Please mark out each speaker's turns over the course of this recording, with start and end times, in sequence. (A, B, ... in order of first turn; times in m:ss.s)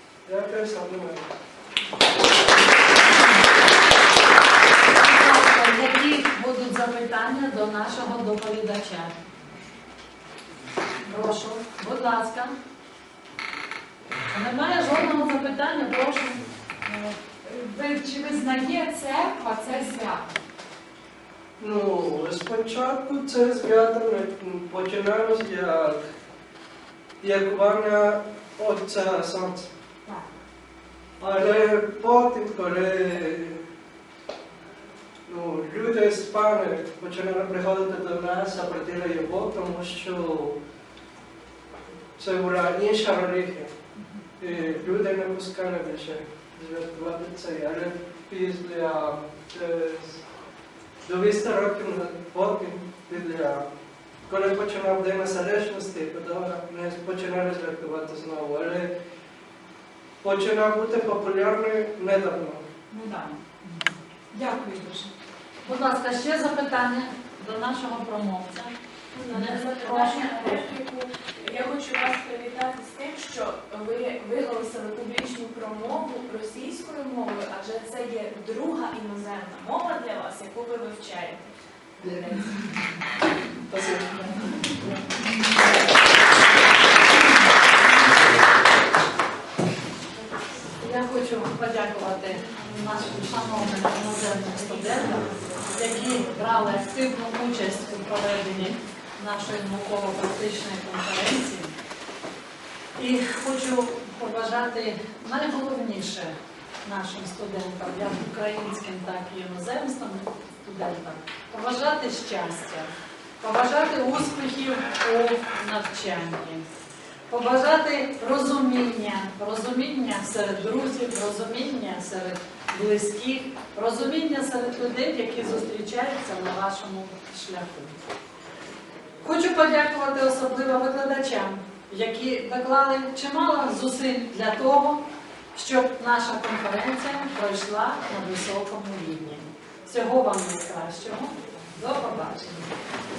0:00.3-0:01.3 A
0:04.9-0:09.1 B
0:11.1-0:12.6 B
0:14.3-0:16.4 B
0:16.9-0:20.3 C
0:21.6-0:26.1 A
0:27.2-0:29.7 A
0:31.2-0:33.6 A
0:35.3-0:40.6 A
0:42.2-0:43.7 A
0:44.4-0:50.2 A
0:51.0-0:53.6 A
0:54.3-0:58.9 A
1:00.2-1:02.6 A
1:02.9-1:05.1 C
1:05.6-1:08.7 B
1:09.1-1:22.6 D
1:09.3-1:10.7 B
1:23.7-1:24.1 A
1:30.8-1:41.8 B
1:43.0-1:56.7 B
1:57.3-2:08.0 B
2:09.2-2:15.0 B
2:15.5-2:22.7 B